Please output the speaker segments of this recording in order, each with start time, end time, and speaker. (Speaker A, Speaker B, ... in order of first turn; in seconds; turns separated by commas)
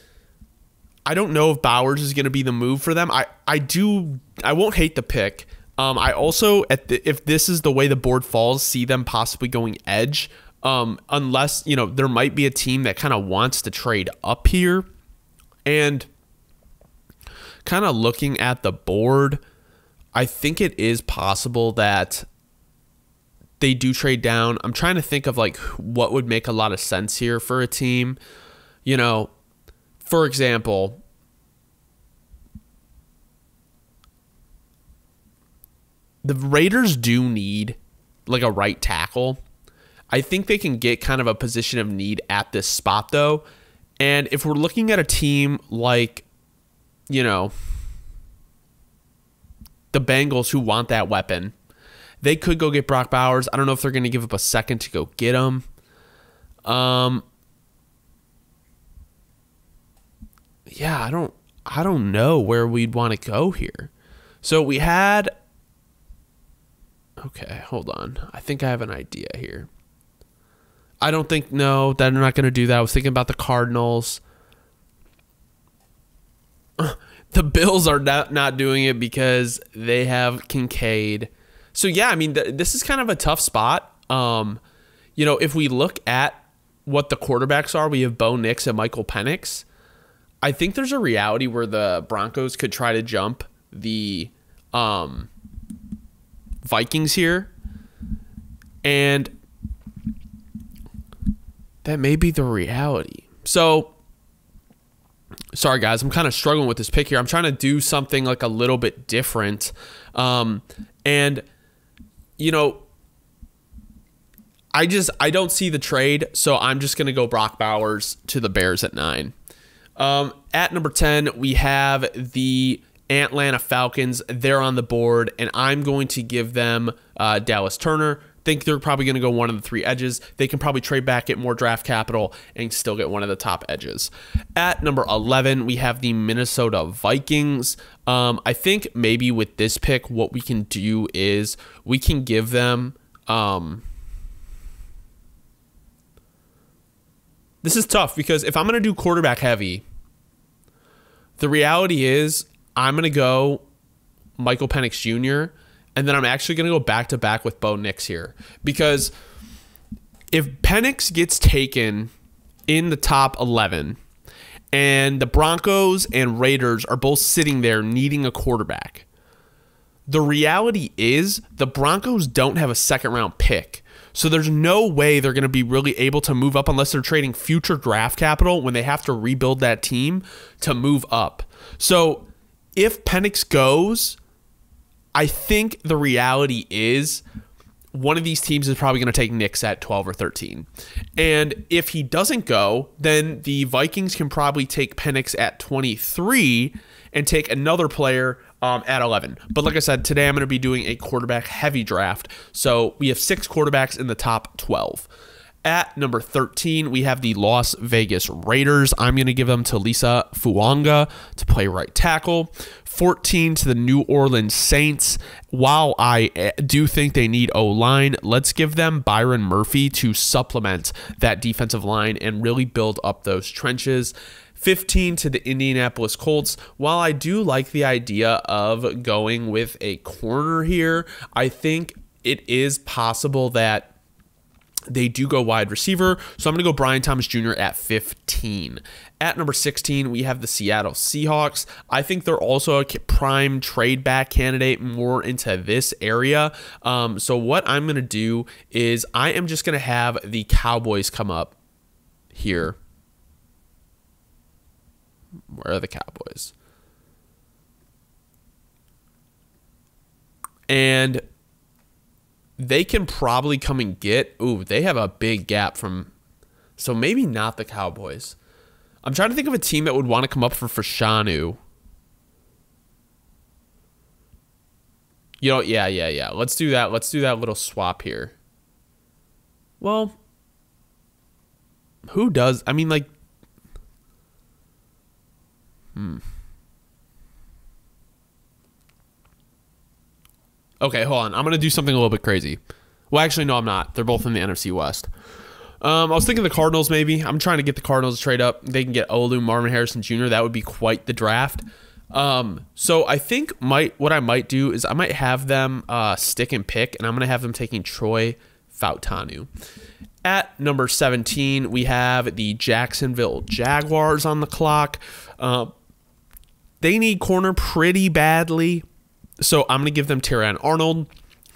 Speaker A: 1.1-14.9, Speaker A: 15.7-16.1, Speaker A: 17.6-19.4, Speaker A: 20.1-22.3, Speaker A: 23.6-28.2, Speaker A: 28.9-29.3, Speaker A: 30.0-31.0, Speaker A: 36.2-39.4, Speaker A: 40.1-43.4, Speaker A: 44.0-46.3, Speaker A: 47.1-47.5, Speaker A: 49.9-51.5, Speaker A: 52.2-55.7, Speaker A: 56.7-57.2, Speaker A: 60.7-63.9, Speaker A: 64.4-65.3, Speaker A: 67.2-69.7, Speaker A: 71.0-74.2, Speaker A: 76.8-84.6, Speaker A: 85.2-89.7, Speaker A: 90.4-95.3, Speaker A: 96.6-97.5, Speaker A: 98.8-99.3, Speaker A: 101.8-103.9, Speaker A: 105.5-111.4, Speaker A: 112.4-112.8, Speaker A: 114.8-119.3, Speaker A: 120.0-143.8, Speaker A: 147.6-149.8, Speaker A: 151.4-153.6, Speaker A: 154.4-159.1, Speaker A: 160.3-162.1, Speaker A: 162.7-164.0, Speaker A: 164.7-169.1, Speaker A: 170.1-184.2, Speaker A: 185.2-187.2, Speaker A: 187.9-205.1, Speaker A: 205.7-233.9, Speaker A: 234.9-251.6, Speaker A: 252.3-252.8, Speaker A: 255.5-256.5, Speaker A: 260.7-261.2, Speaker A: 262.6-266.1, Speaker A: 266.8-268.4, Speaker A: 269.0-271.6, Speaker A: 275.4-278.4, Speaker A: 279.8-280.2, Speaker A: 282.1-283.1, Speaker A: 285.9-286.2, Speaker A: 290.8-292.6, Speaker A: 293.1-295.1, Speaker A: 295.8-309.5, Speaker A: 310.2-315.7, Speaker A: 316.8-318.9, Speaker A: 319.4-321.1